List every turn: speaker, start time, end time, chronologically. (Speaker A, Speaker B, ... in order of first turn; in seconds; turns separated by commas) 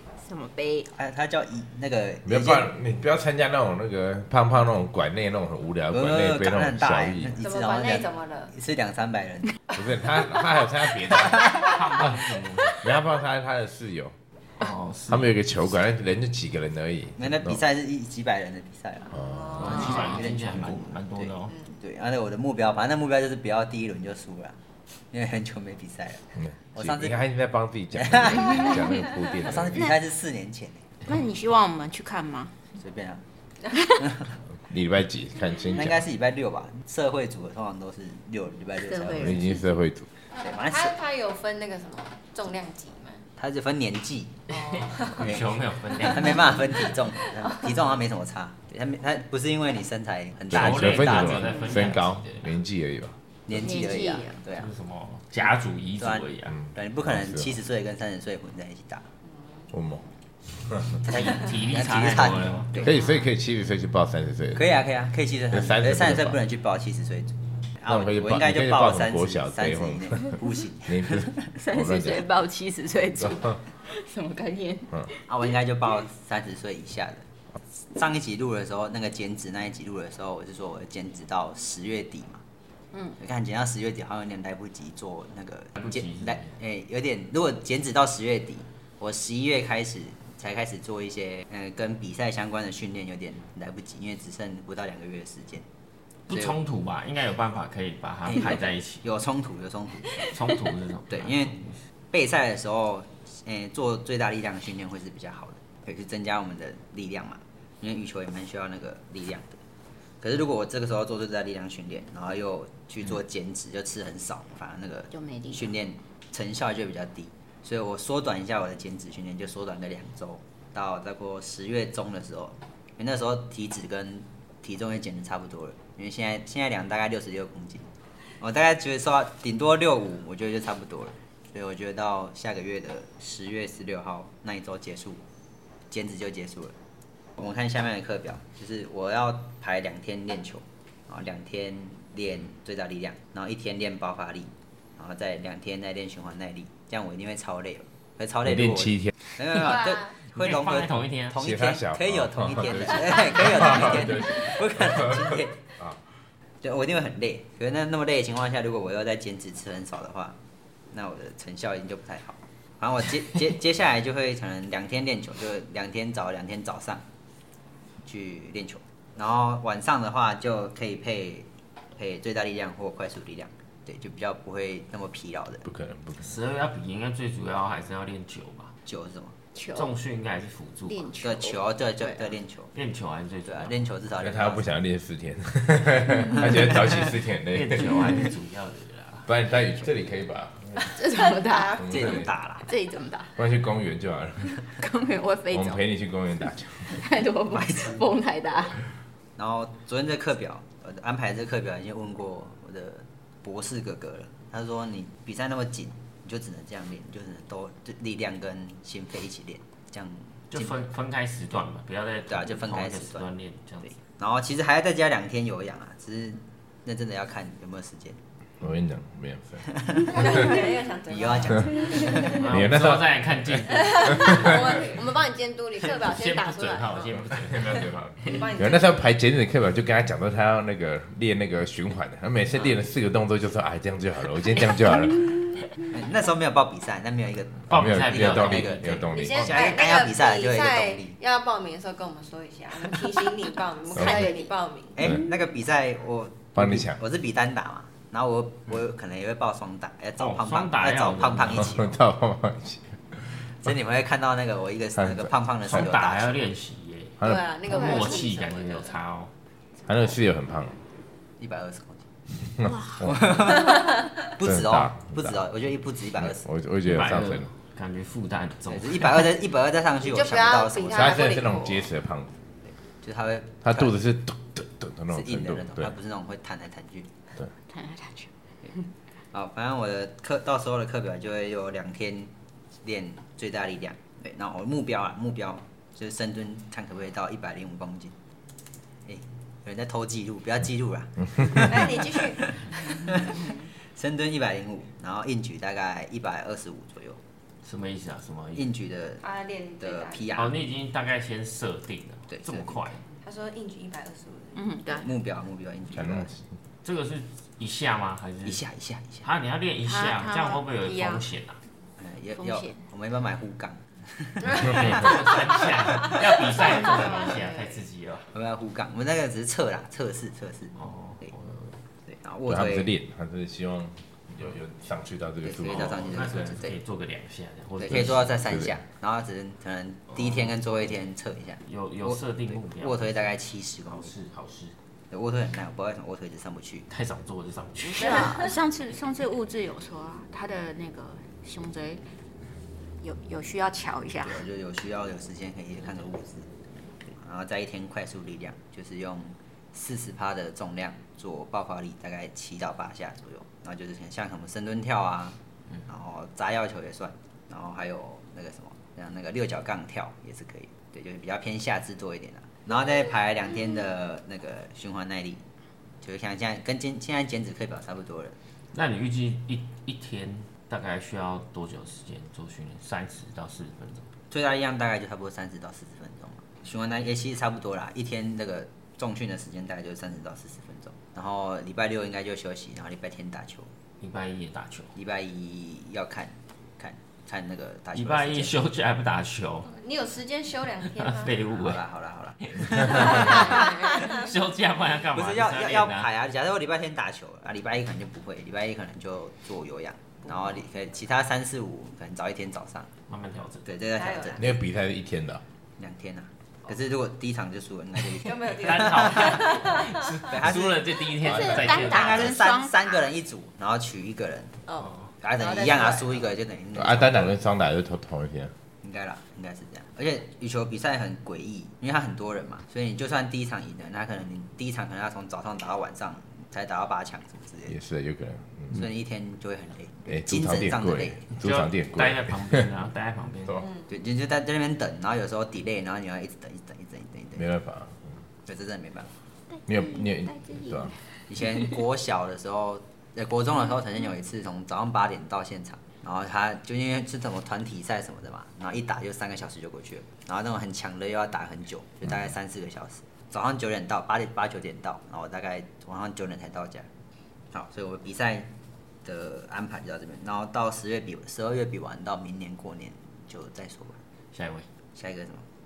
Speaker A: 0.2-0.9, Speaker B: 0.9-2.7, Speaker C: 2.2-7.4, Speaker B: 5.9-9.6, Speaker D: 7.4-8.5, Speaker C: 9.7-12.2, Speaker E: 11.5-12.8, Speaker C: 12.7-14.1, Speaker E: 14.6-15.4, Speaker C: 15.1-17.6, Speaker B: 17.2-24.6, Speaker C: 19.1-19.9, Speaker E: 19.6-21.6, Speaker B: 25.1-27.2, Speaker C: 26.4-29.9, Speaker B: 28.0-28.8, Speaker B: 29.4-30.9, Speaker A: 31.1-32.5, Speaker B: 32.8-33.2, Speaker B: 34.0-34.4, Speaker C: 34.6-36.0, Speaker B: 35.8-39.4, Speaker A: 38.8-39.7, Speaker C: 39.0-40.1, Speaker B: 40.4-40.9, Speaker D: 40.6-43.2, Speaker B: 43.4-44.4, Speaker E: 44.5-46.5, Speaker D: 44.5-45.3, Speaker B: 46.0-51.3, Speaker D: 46.9-47.6, Speaker E: 50.5-52.5, Speaker C: 50.5-53.7, Speaker B: 53.5-54.7, Speaker A: 53.5-54.4, Speaker E: 54.5-56.5, Speaker B: 56.0-59.1, Speaker C: 56.5-57.6, Speaker C: 59.7-60.0, Speaker C: 60.6-61.0, Speaker B: 61.0-63.0, Speaker E: 61.0-63.2, Speaker C: 62.8-64.8, Speaker B: 64.5-71.5, Speaker C: 65.5-66.4, Speaker C: 67.9-70.3, Speaker C: 70.9-72.3, Speaker A: 71.5-75.2, Speaker C: 73.2-73.5, Speaker B: 75.3-77.2, Speaker B: 77.9-82.4, Speaker B: 83.2-95.7, Speaker E: 85.8-86.6, Speaker E: 96.3-99.0, Speaker B: 96.3-96.6, Speaker B: 98.3-100.3, Speaker E: 100.2-101.8, Speaker B: 101.1-101.6, Speaker B: 102.1-109.6, Speaker B: 110.2-135.2, Speaker A: 115.1-115.7, Speaker B: 135.9-136.8, Speaker B: 137.4-155.6, Speaker E: 150.3-151.4, Speaker C: 151.4-156.0, Speaker B: 156.6-160.4, Speaker B: 160.9-167.0, Speaker B: 168.1-175.6, Speaker C: 175.7-176.4, Speaker E: 176.2-178.7, Speaker B: 178.9-179.4, Speaker A: 179.6-179.9, Speaker E: 179.7-181.1, Speaker A: 180.9-182.3, Speaker B: 181.2-182.7, Speaker E: 182.7-183.8, Speaker B: 183.4-184.7, Speaker C: 184.2-188.1, Speaker E: 187.5-189.3, Speaker C: 189.3-190.9, Speaker A: 190.8-191.8, Speaker D: 191.2-191.9, Speaker C: 191.8-192.3, Speaker B: 191.8-192.7, Speaker A: 192.7-193.3, Speaker C: 193.4-194.6, Speaker A: 194.7-195.8, Speaker C: 195.5-197.0, Speaker A: 196.9-198.8, Speaker B: 197.5-198.0, Speaker B: 199.4-210.8, Speaker E: 210.5-213.9, Speaker B: 212.3-213.3, Speaker B: 214.1-218.2, Speaker C: 218.6-219.7, Speaker B: 219.7-220.4, Speaker D: 220.0-222.4, Speaker B: 221.1-222.4, Speaker E: 222.2-224.9, Speaker C: 222.3-224.8, Speaker D: 223.7-227.7, Speaker E: 226.0-228.5, Speaker C: 227.1-235.3, Speaker D: 228.2-229.0, Speaker B: 235.9-241.2, Speaker E: 237.7-239.4, Speaker C: 237.7-239.5, Speaker D: 239.1-245.1, Speaker A: 243.9-244.5, Speaker B: 245.0-251.9, Speaker C: 246.6-247.0, Speaker E: 250.2-251.8, Speaker C: 251.5-253.4, Speaker B: 253.6-256.4, Speaker C: 255.0-255.3, Speaker E: 255.7-259.3, Speaker C: 257.2-257.5, Speaker D: 257.2-259.0, Speaker C: 259.9-260.8, Speaker B: 261.4-262.1, Speaker C: 262.6-263.3, Speaker B: 263.0-266.4, Speaker C: 264.4-265.4, Speaker C: 266.2-267.5, Speaker E: 266.9-269.3, Speaker B: 268.7-271.2, Speaker D: 270.0-271.9, Speaker C: 270.9-272.3, Speaker B: 273.0-273.9, Speaker C: 273.6-275.9, Speaker B: 275.1-277.1, Speaker A: 277.7-278.3, Speaker B: 279.3-288.1, Speaker B: 289.1-297.2, Speaker D: 291.5-292.6, Speaker E: 297.6-298.7, Speaker B: 298.6-299.2, Speaker D: 299.2-300.3, Speaker B: 299.8-300.6, Speaker E: 300.4-303.0, Speaker B: 302.3-303.0, Speaker D: 303.2-304.8, Speaker A: 304.6-305.1, Speaker B: 305.0-306.3, Speaker C: 305.9-306.4, Speaker E: 306.8-308.6, Speaker B: 308.4-309.3, Speaker E: 309.2-311.6, Speaker A: 309.9-311.2, Speaker B: 312.0-315.5, Speaker A: 312.4-312.8, Speaker E: 314.5-318.3, Speaker D: 316.9-317.5, Speaker B: 318.3-320.8, Speaker E: 320.8-321.7, Speaker B: 322.1-322.9, Speaker C: 322.5-326.3, Speaker B: 325.4-326.8, Speaker E: 325.7-328.4, Speaker B: 327.8-332.2, Speaker C: 328.5-328.7, Speaker E: 330.2-330.5, Speaker E: 331.7-333.2, Speaker B: 332.8-334.1, Speaker E: 333.9-334.8, Speaker B: 335.1-336.9, Speaker E: 336.9-338.4, Speaker A: 337.9-342.0, Speaker D: 338.2-338.5, Speaker A: 343.0-344.5, Speaker B: 344.2-346.5, Speaker B: 347.2-365.4, Speaker B: 366.0-368.4, Speaker E: 368.7-374.1, Speaker B: 374.3-383.7, Speaker E: 384.0-384.9, Speaker B: 384.9-388.6, Speaker E: 387.9-389.7, Speaker D: 389.7-391.4, Speaker E: 390.9-391.8, Speaker B: 391.5-393.8, Speaker E: 392.4-396.1, Speaker D: 393.2-394.2, Speaker B: 395.1-402.9, Speaker E: 403.1-403.7, Speaker B: 403.7-404.5, Speaker D: 403.9-404.5, Speaker C: 404.4-405.4, Speaker B: 405.8-414.6, Speaker D: 408.2-409.9, Speaker E: 408.5-412.4, Speaker A: 411.2-413.0, Speaker D: 414.7-416.3, Speaker B: 415.2-417.3, Speaker C: 416.7-418.5, Speaker B: 418.8-427.7, Speaker C: 427.7-428.9, Speaker B: 428.7-431.3, Speaker C: 430.1-432.7, Speaker E: 431.4-433.6, Speaker B: 433.9-437.5, Speaker C: 437.4-438.2, Speaker B: 438.5-439.1, Speaker C: 439.7-440.9, Speaker A: 439.8-440.9, Speaker B: 441.3-456.9, Speaker B: 457.5-458.5, Speaker B: 459.0-464.0, Speaker E: 464.3-464.7, Speaker B: 464.9-465.4